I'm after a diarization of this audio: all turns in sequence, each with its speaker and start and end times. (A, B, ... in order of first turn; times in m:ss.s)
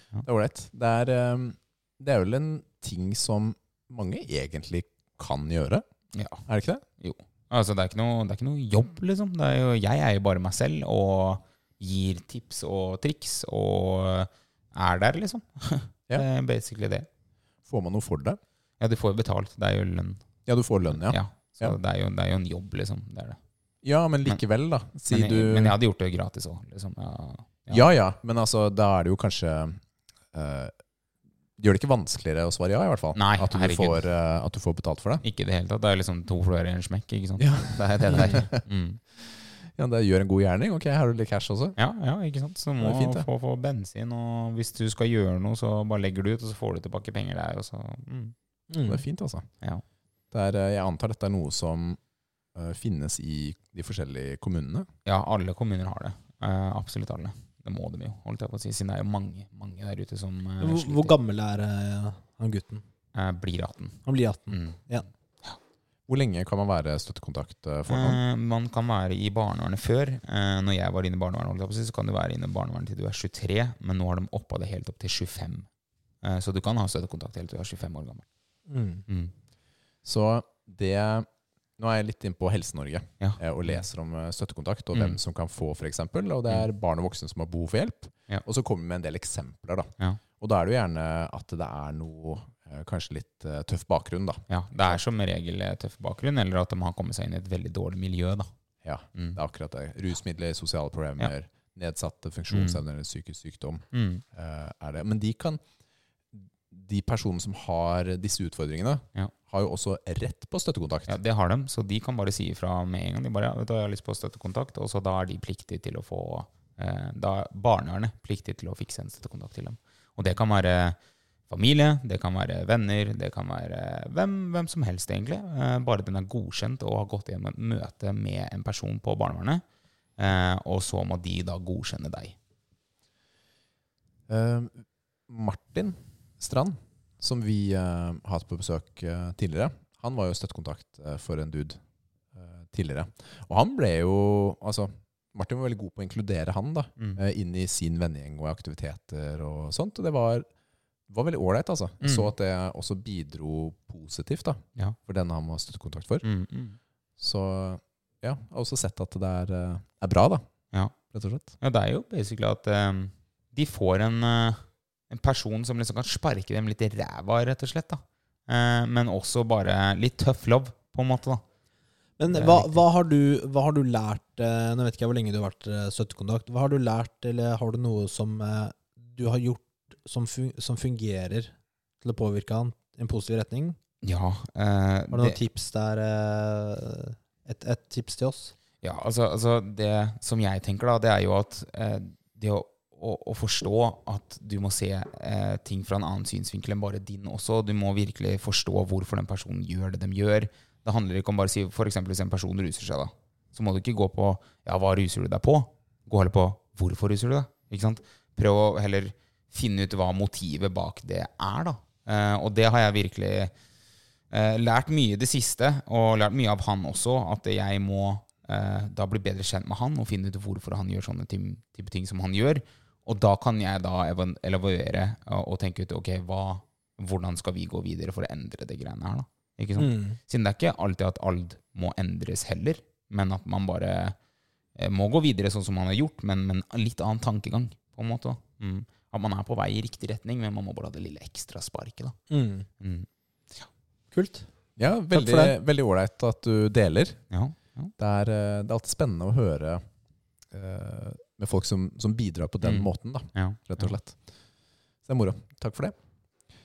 0:00.2-0:05.8 A
0:06.1-0:06.4 B
0:06.5-0:06.8 A
0:07.0-0:17.1 B
0:17.7-0:18.4 A
0:18.8-0:20.2 B
0:20.5-0:21.8 A
0:21.0-0:23.4 B
0:23.8-0:25.8 A
0:25.1-0:27.9 B
0:27.7-0:29.8 A
0:30.3-0:30.7 A
0:31.6-0:35.2 A
0:33.2-0:34.0 B
0:35.2-0:39.0 B
0:37.4-0:38.6 A
0:38.1-0:38.4 C
0:39.2-0:41.8 A
0:41.8-0:48.3 B
0:42.8-0:43.3 A
0:48.7-0:49.0 C
0:48.9-0:49.5 A
0:50.3-0:52.0 A
0:52.5-0:54.9 A
0:55.0-1:01.1 B
1:00.6-1:02.8 C
1:03.1-1:04.8 B
1:04.1-1:05.0 C
1:06.1-1:08.2 A
1:07.9-1:15.7 B
1:16.2-1:18.2 B
1:18.7-1:19.0 C
1:19.1-1:19.3 B
1:20.0-1:21.3 A
1:21.8-1:35.0 A
1:23.2-1:23.8 B
1:34.5-1:38.5 B
1:38.8-1:45.6 A
1:42.5-1:42.8 B
1:43.9-1:44.2 B
1:46.4-1:51.2 A
1:51.1-2:01.0 B
2:01.5-2:09.6 B
2:10.2-2:12.4 B
2:14.3-2:21.8 A
2:22.4-2:30.5 A
2:31.1-2:36.2 A
2:32.0-2:32.3 B
2:36.2-2:36.8 B
2:37.2-2:40.4 A
2:41.1-2:41.5 A
2:41.6-2:51.4 B
2:52.2-3:03.8 C
2:52.3-2:52.8 B
3:04.0-3:05.4 B
3:05.1-3:08.5 C
3:08.8-3:33.5 B
3:34.3-3:54.2 B
3:49.8-3:50.2 C
3:54.8-4:02.2 B
4:02.3-4:02.7 C
4:02.8-4:03.7 B
4:04.1-4:04.5 C
4:04.8-4:07.2 A
4:05.1-4:05.6 C
4:07.3-4:07.9 B
4:08.0-4:09.8 A
4:10.5-4:14.2 A
4:12.6-4:13.9 B
4:15.0-4:16.0 A